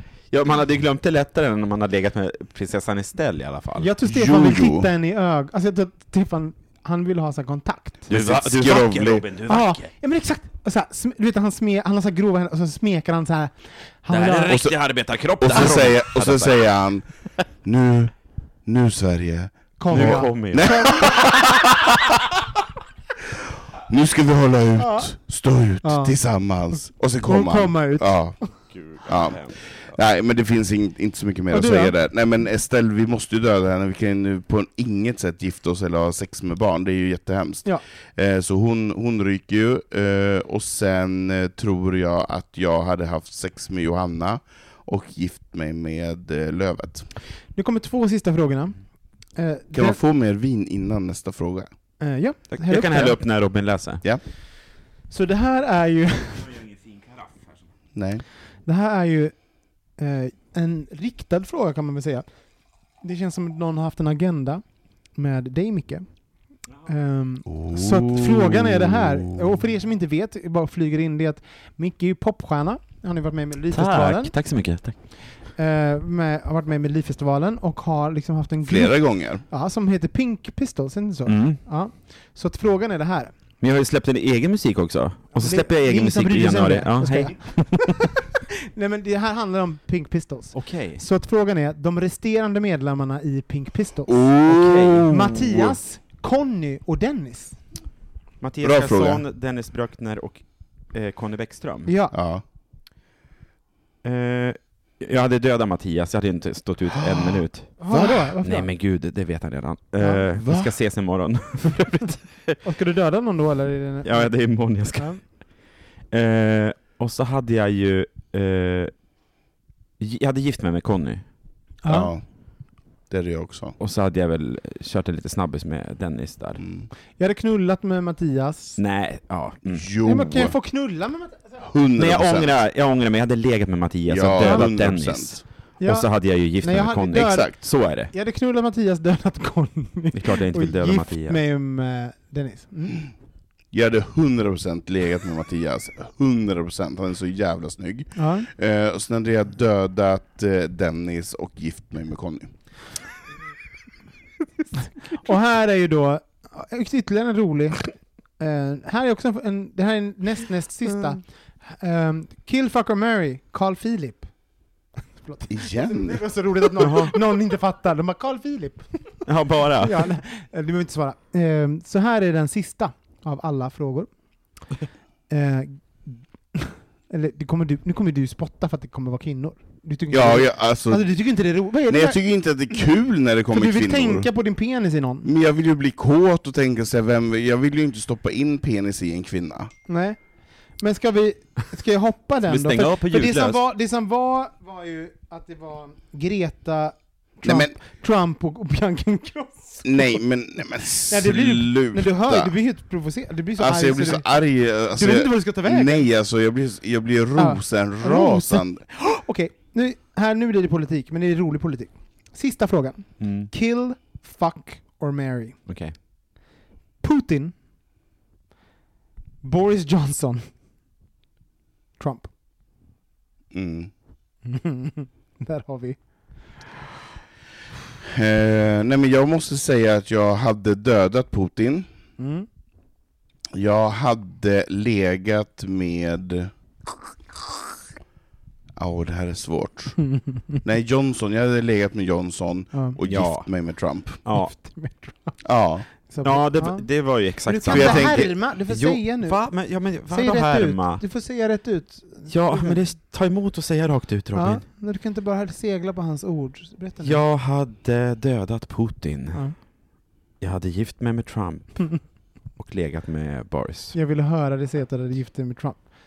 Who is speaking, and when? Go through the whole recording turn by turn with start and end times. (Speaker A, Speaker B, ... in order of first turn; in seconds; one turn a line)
Speaker A: 0.3-3.9
Speaker B: 3.8-8.1
Speaker C: 4.1-4.9
Speaker C: 8.1-9.3
Speaker A: 8.1-9.9
Speaker B: 9.5-14.6
Speaker A: 14.1-16.6
Speaker C: 14.5-14.8
Speaker C: 15.4-17.1
Speaker C: 17.6-18.1
Speaker C: 18.7-21.5
Speaker B: 19.8-21.1
Speaker A: 19.9-21.4
Speaker C: 23.9-28.4
Speaker B: 24.8-25.1
Speaker B: 25.8-26.1
Speaker B: 27.2-28.1
Speaker A: 28.7-29.6
Speaker C: 29.0-47.1
Speaker B: 31.5-31.9
Speaker B: 47.5-48.8
Speaker B: 49.4-50.0
Speaker C: 49.7-51.7
Speaker B: 52.0-53.2
Speaker A: 52.5-54.0
Speaker B: 55.1-56.5
Speaker A: 56.5-57.5
Speaker C: 57.9-58.2
Speaker B: 58.6-59.4
Speaker B: 60.0-62.3
Speaker B: 63.0-64.6
Speaker B: 65.1-66.1
Speaker B: 66.9-74.3
Speaker C: 67.5-69.6
Speaker A: 73.7-75.0
Speaker B: 75.6-83.3
Speaker C: 78.7-79.4
Speaker A: 81.3-81.6
Speaker A: 83.6-88.1
Speaker B: 85.4-88.1
Speaker B: 88.7-97.6
Speaker A: 90.5-91.0
Speaker C: 94.1-95.8
Speaker A: 94.5-95.1
Speaker A: 98.4-101.9
Speaker C: 98.6-99.2
Speaker B: 101.9-102.2
Speaker C: 102.1-102.4
Speaker A: 104.0-107.8
Speaker C: 107.0-108.3
Speaker B: 107.8-108.7
Speaker A: 108.4-112.6
Speaker C: 110.4-110.7
Speaker B: 112.6-114.3
Speaker A: 114.0-115.3
Speaker B: 114.9-115.2
Speaker A: 116.1-118.9
Speaker A: 120.0-121.2
Speaker B: 121.8-122.1
Speaker C: 121.9-122.2
Speaker C: 123.1-123.8
Speaker A: 123.8-126.6
Speaker C: 126.6-126.9
Speaker B: 127.2-128.8
Speaker A: 128.8-129.9
Speaker C: 129.7-130.6
Speaker B: 130.0-131.6
Speaker C: 131.6-132.6
Speaker A: 132.0-138.1
Speaker C: 134.1-135.4
Speaker B: 134.4-134.7
Speaker B: 135.8-136.1
Speaker B: 136.6-143.1
Speaker C: 137.1-137.5
Speaker A: 140.1-141.4
Speaker C: 143.7-152.5
Speaker B: 148.2-148.5
Speaker B: 155.1-164.3
Speaker B: 165.2-169.1
Speaker C: 165.5-166.2
Speaker A: 166.8-167.2
Speaker A: 169.3-170.1
Speaker B: 169.8-174.1
Speaker B: 175.3-182.2
Speaker C: 180.1-181.1
Speaker C: 181.9-184.3
Speaker B: 183.5-185.3
Speaker C: 185.2-189.7
Speaker B: 189.9-190.2
Speaker B: 190.8-200.2
Speaker A: 192.4-193.6
Speaker C: 197.4-197.8
Speaker C: 199.8-202.5
Speaker B: 201.1-204.3
Speaker C: 203.6-208.8
Speaker B: 204.9-206.1
Speaker B: 207.4-215.6
Speaker A: 213.2-213.5
Speaker A: 215.7-215.9
Speaker B: 217.0-217.5
Speaker B: 219.4-220.5
Speaker B: 222.0-222.3
Speaker C: 223.5-223.9
Speaker B: 224.4-226.0
Speaker C: 228.1-231.9
Speaker B: 232.2-232.5
Speaker C: 233.5-236.5
Speaker C: 238.8-240.0
Speaker B: 240.0-240.6
Speaker C: 240.6-244.2
Speaker A: 243.0-243.5
Speaker A: 244.2-244.5
Speaker B: 244.3-245.4
Speaker C: 245.4-245.9
Speaker B: 246.1-246.9
Speaker A: 246.2-251.0
Speaker B: 247.5-249.4
Speaker C: 247.7-248.3
Speaker B: 250.1-252.8
Speaker A: 252.3-254.6
Speaker B: 254.3-257.2
Speaker A: 257.0-259.5
Speaker A: 260.4-262.0
Speaker A: 262.6-263.9
Speaker B: 263.9-265.9